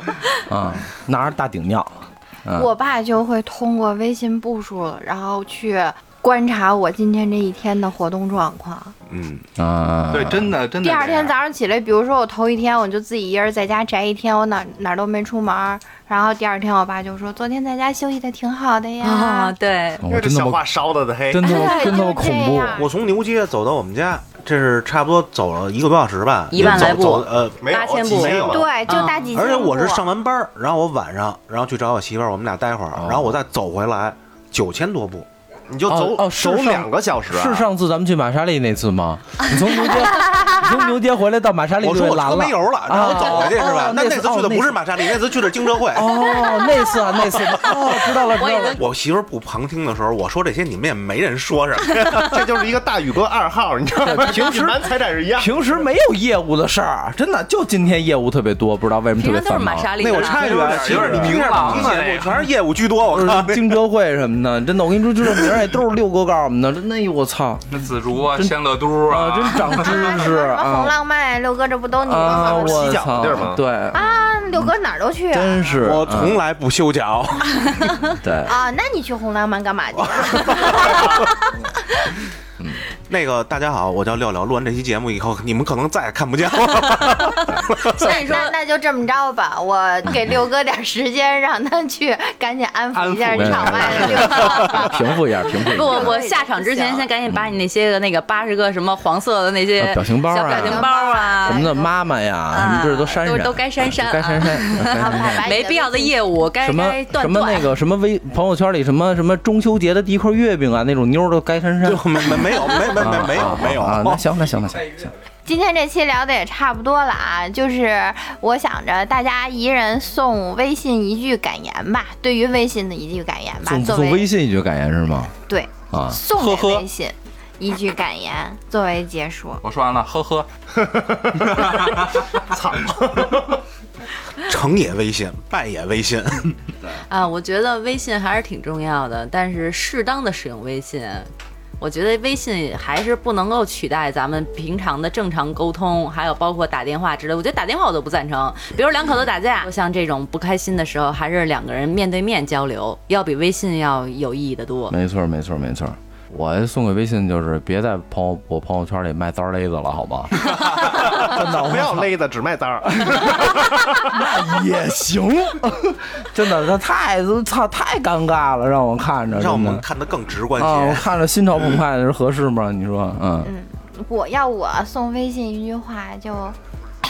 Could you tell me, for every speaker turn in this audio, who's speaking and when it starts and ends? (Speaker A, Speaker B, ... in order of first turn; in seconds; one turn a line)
Speaker A: 0.3-2.7
Speaker B: 2.5-8.9
Speaker C: 9.1-9.4
Speaker A: 9.6-10.5
Speaker D: 10.1-11.3
Speaker B: 10.8-19.5
Speaker E: 19.0-20.0
Speaker A: 20.0-20.6
Speaker F: 20.0-21.6
Speaker A: 21.3-22.8
Speaker B: 21.4-22.9
Speaker C: 22.8-28.6
Speaker E: 26.5-29.3
Speaker F: 27.6-28.7
Speaker B: 28.4-30.1
Speaker C: 29.3-35.3
Speaker A: 33.0-33.3
Speaker F: 35.7-37.7
Speaker A: 35.9-44.8
Speaker C: 41.8-46.3
Speaker A: 45.9-48.8
Speaker C: 47.3-48.2
Speaker E: 47.5-48.8
Speaker C: 48.7-52.3
Speaker F: 52.0-55.5
Speaker A: 54.1-54.8
Speaker A: 55.4-59.9
Speaker E: 59.2-60.8
Speaker C: 60.0-63.7
Speaker D: 60.1-62.5
Speaker A: 60.6-61.9
Speaker A: 63.1-67.6
Speaker D: 67.7-70.1
Speaker A: 68.3-70.9
Speaker B: 69.7-73.1
Speaker A: 72.0-74.7
Speaker F: 72.2-73.6
Speaker B: 73.9-75.7
Speaker A: 75.3-76.4
Speaker C: 75.7-78.0
Speaker A: 78.2-78.5
Speaker B: 78.4-81.5
Speaker C: 80.0-81.2
Speaker F: 80.9-81.2
Speaker C: 83.1-88.0
Speaker E: 87.2-88.5
Speaker B: 88.0-97.1
Speaker D: 92.9-94.5
Speaker A: 93.3-96.1
Speaker E: 95.6-101.7
Speaker A: 99.8-105.4
Speaker B: 100.4-101.9
Speaker E: 102.5-107.7
Speaker B: 104.8-106.1
Speaker A: 106.6-115.1
Speaker C: 111.8-114.2
Speaker B: 115.4-124.2
Speaker A: 123.6-125.3
Speaker B: 125.5-129.6
Speaker A: 125.9-126.2
Speaker D: 126.3-126.8
Speaker D: 129.6-130.5
Speaker F: 130.8-133.6
Speaker D: 131.6-132.2
Speaker C: 134.4-136.6
Speaker E: 137.1-141.3
Speaker E: 141.8-154.9
Speaker A: 154.9-162.1
Speaker F: 160.8-164.2
Speaker A: 162.9-169.8
Speaker C: 169.3-171.1
Speaker A: 170.6-173.5
Speaker B: 173.4-176.6